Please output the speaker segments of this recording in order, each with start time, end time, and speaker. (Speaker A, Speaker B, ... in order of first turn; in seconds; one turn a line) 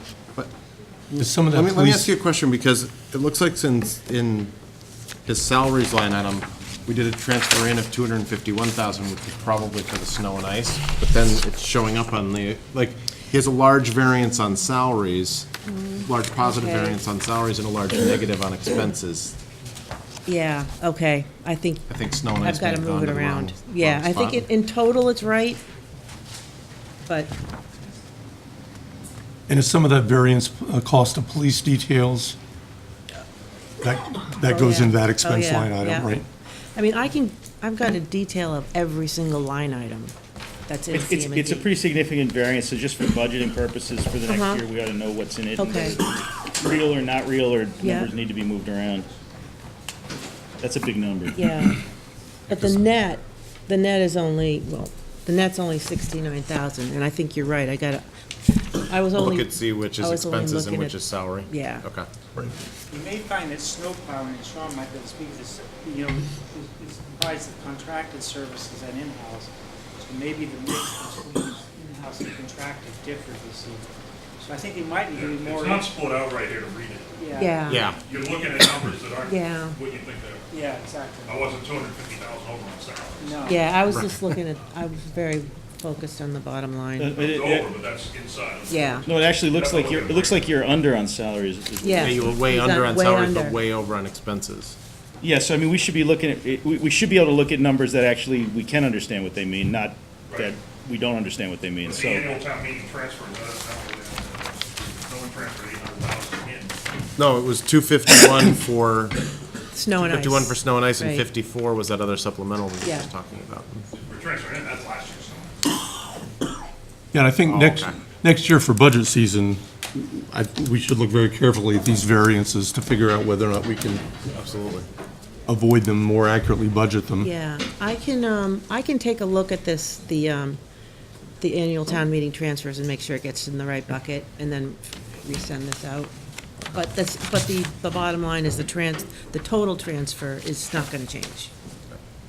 Speaker A: 1.1-4.5
Speaker B: 1.2-2.1
Speaker A: 5.3-15.5
Speaker C: 15.7-17.0
Speaker A: 16.0-19.4
Speaker C: 20.3-25.6
Speaker A: 21.9-24.5
Speaker C: 27.1-27.3
Speaker B: 29.5-32.4
Speaker B: 33.8-36.3
Speaker C: 34.4-36.2
Speaker C: 36.8-40.1
Speaker C: 40.7-41.7
Speaker D: 40.9-49.1
Speaker C: 44.3-44.7
Speaker C: 45.6-46.0
Speaker C: 47.8-48.1
Speaker D: 50.6-51.7
Speaker C: 51.3-51.8
Speaker C: 52.5-61.9
Speaker A: 59.1-62.1
Speaker E: 62.9-73.8
Speaker E: 74.4-75.9
Speaker F: 75.1-77.1
Speaker E: 77.2-77.6
Speaker C: 77.4-77.9
Speaker A: 77.7-78.0
Speaker F: 77.9-80.5
Speaker C: 79.2-79.8
Speaker E: 80.5-81.5
Speaker F: 81.3-83.5
Speaker E: 83.2-83.8
Speaker C: 83.4-87.1
Speaker A: 83.9-84.2
Speaker D: 87.0-87.7
Speaker F: 87.2-90.4
Speaker C: 88.7-89.1
Speaker D: 89.1-92.4
Speaker C: 91.8-93.6
Speaker A: 92.0-94.8
Speaker D: 95.2-102.3
Speaker F: 101.8-106.8
Speaker A: 107.2-109.2
Speaker C: 109.7-111.2
Speaker A: 109.9-113.8
Speaker C: 112.8-113.1
Speaker F: 114.0-115.6
Speaker B: 117.1-124.1
Speaker A: 117.5-118.0
Speaker A: 124.3-124.9
Speaker B: 125.5-127.3
Speaker C: 127.2-130.6
Speaker C: 131.4-136.1
Speaker C: 136.7-141.5